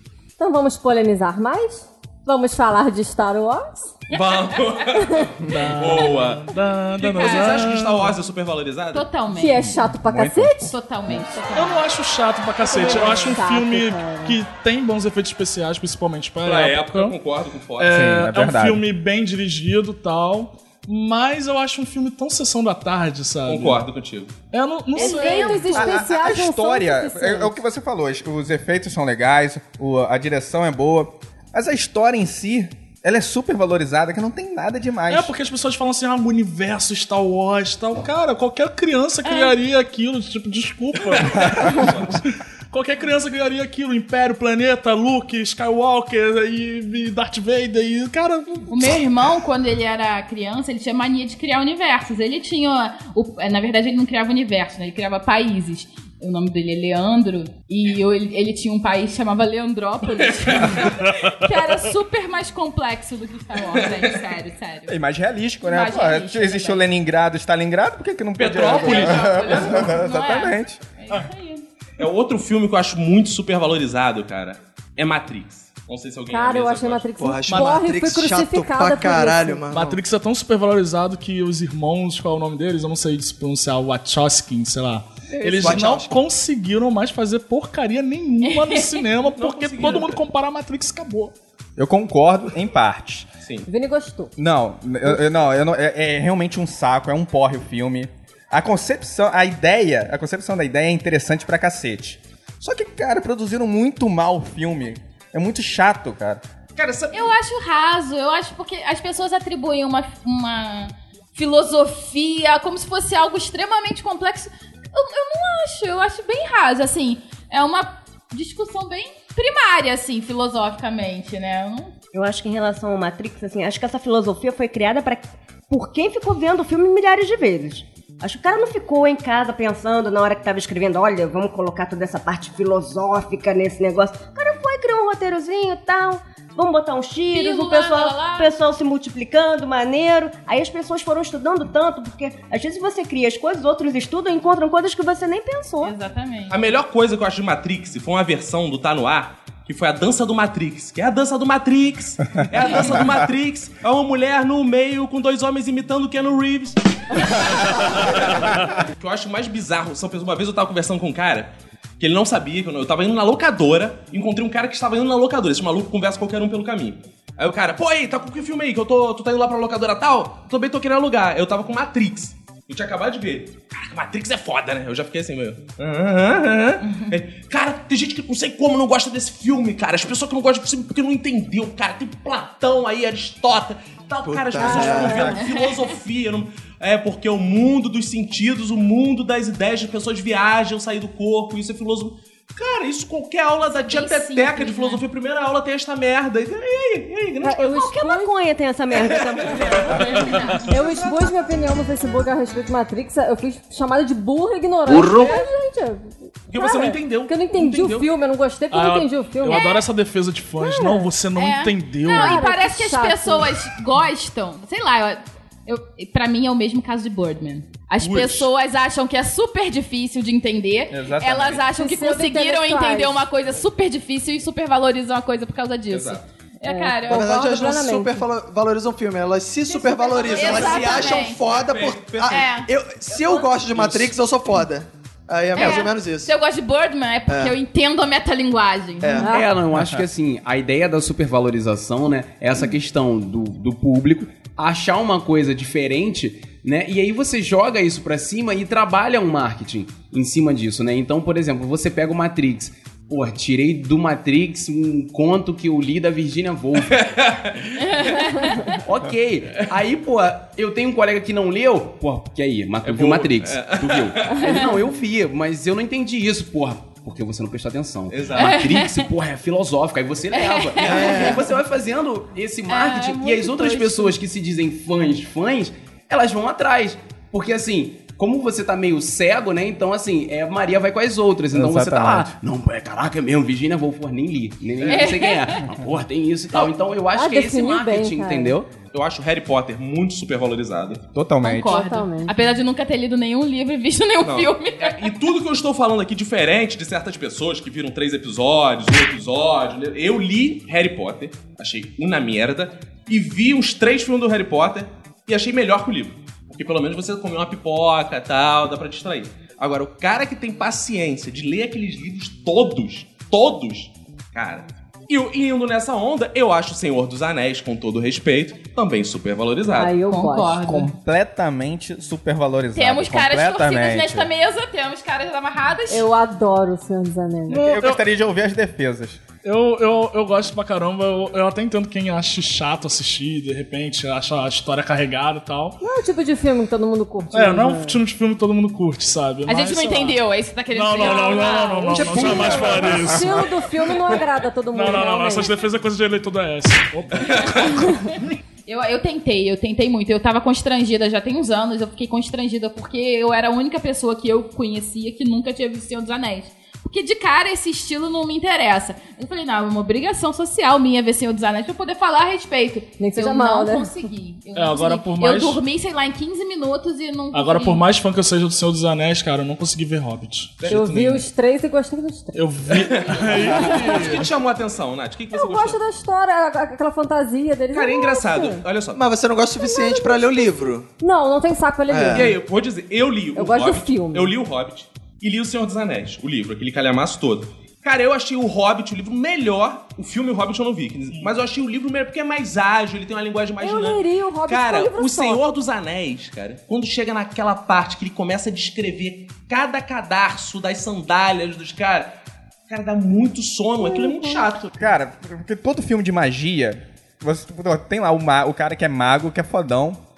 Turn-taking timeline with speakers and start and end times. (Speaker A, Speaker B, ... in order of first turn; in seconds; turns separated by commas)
Speaker A: 0.4-3.9, Speaker B: 4.1-9.1, Speaker C: 4.1-4.4, Speaker D: 5.4-8.2, Speaker C: 7.2-7.5, Speaker C: 8.9-9.7, Speaker A: 9.3-10.7, Speaker E: 10.0-10.5, Speaker C: 10.6-11.8, Speaker D: 11.5-17.1, Speaker A: 12.6-14.4, Speaker B: 16.4-18.0, Speaker D: 17.8-23.8, Speaker E: 17.9-18.8, Speaker B: 23.4-24.3, Speaker D: 24.5-25.8, Speaker C: 24.9-25.9, Speaker A: 24.9-27.6, Speaker E: 25.7-35.3, Speaker D: 35.1-48.9, Speaker C: 39.2-39.5, Speaker B: 41.8-42.0, Speaker C: 48.7-65.0, Speaker B: 60.5-60.9, Speaker E: 64.9-70.8, Speaker C: 65.6-66.8, Speaker B: 68.4-70.0, Speaker C: 68.7-71.6, Speaker B: 72.0-77.0, Speaker A: 76.3-79.7, Speaker F: 77.2-80.0, Speaker D: 77.5-77.8, Speaker D: 79.7-91.3, Speaker F: 85.4-86.1, Speaker C: 88.4-89.0, Speaker B: 89.2-90.2, Speaker E: 91.8-93.3, Speaker A: 93.7-94.3, Speaker E: 94.4-106.4, Speaker B: 106.8-107.3, Speaker C: 107.1-121.9, Speaker G: 122.1-145.9, Speaker C: 137.3-138.5, Speaker C: 145.8-146.6, Speaker B: 146.5-197.8, Speaker C: 176.8-177.1, Speaker F: 184.2-185.3, Speaker A: 184.6-185.3, Speaker C: 185.3-185.8, Speaker C: 193.7-195.0, Speaker A: 197.4-198.3, Speaker G: 197.6-200.0, Speaker B: 198.9-200.9, Speaker C: 200.0-200.6, Speaker A: 200.6-209.7, Speaker D: 204.9-205.3, Speaker B: 206.5-208.1, Speaker D: 208.7-212.4, Speaker C: 209.5-209.8, Speaker A: 210.6-211.1, Speaker C: 211.3-227.2, Speaker A: 212.0-213.6, Speaker B: 218.0-218.5, Speaker E: 220.9-221.6, Speaker A: 221.7-223.2, Speaker B: 225.9-226.2, Speaker A: 226.6-228.2, Speaker F: 227.1-236.3, Speaker C: 230.0-231.4, Speaker B: 230.4-232.5, Speaker C: 232.3-232.7, Speaker C: 235.5-239.3, Speaker F: 237.3-237.5, Speaker F: 239.0-239.4, Speaker A: 239.2-239.5, Speaker H: 239.3-257.0, Speaker E: 239.7-240.0, Speaker B: 256.9-258.1, Speaker C: 257.8-258.8, Speaker H: 258.7-288.7, Speaker B: 262.8-264.6, Speaker B: 268.1-268.6, Speaker C: 268.4-269.1, Speaker C: 270.3-271.3, Speaker F: 270.8-271.5, Speaker C: 272.7-274.1, Speaker E: 281.5-282.3, Speaker B: 284.8-285.1, Speaker C: 284.9-285.6, Speaker A: 287.1-288.6, Speaker B: 288.9-291.0, Speaker E: 291.1-291.8, Speaker C: 291.4-295.1, Speaker A: 291.6-292.4, Speaker B: 294.2-319.9, Speaker A: 319.7-320.6, Speaker C: 320.1-320.9, Speaker E: 320.6-324.3, Speaker C: 322.7-326.1, Speaker A: 325.9-327.6, Speaker D: 327.5-328.0, Speaker E: 327.6-329.2, Speaker D: 329.4-335.8, Speaker A: 335.8-338.0, Speaker D: 337.3-340.2, Speaker C: 339.4-342.4, Speaker D: 340.7-347.9, Speaker A: 341.2-345.6, Speaker F: 341.9-343.2, Speaker C: 348.6-367.8, Speaker A: 363.0-363.9, Speaker D: 364.5-365.6, Speaker D: 367.3-371.2, Speaker B: 370.6-371.0, Speaker A: 370.7-372.4, Speaker D: 372.3-374.3, Speaker B: 372.7-375.8, Speaker A: 373.4-374.2, Speaker A: 375.3-378.6, Speaker B: 377.7-379.0, Speaker F: 378.9-380.9, Speaker A: 379.6-382.4, Speaker F: 381.9-382.4, Speaker B: 382.1-402.1, Speaker A: 383.3-384.4, Speaker A: 393.6-395.4, Speaker B: 402.7-404.7, Speaker A: 403.8-404.4, Speaker E: 404.8-410.0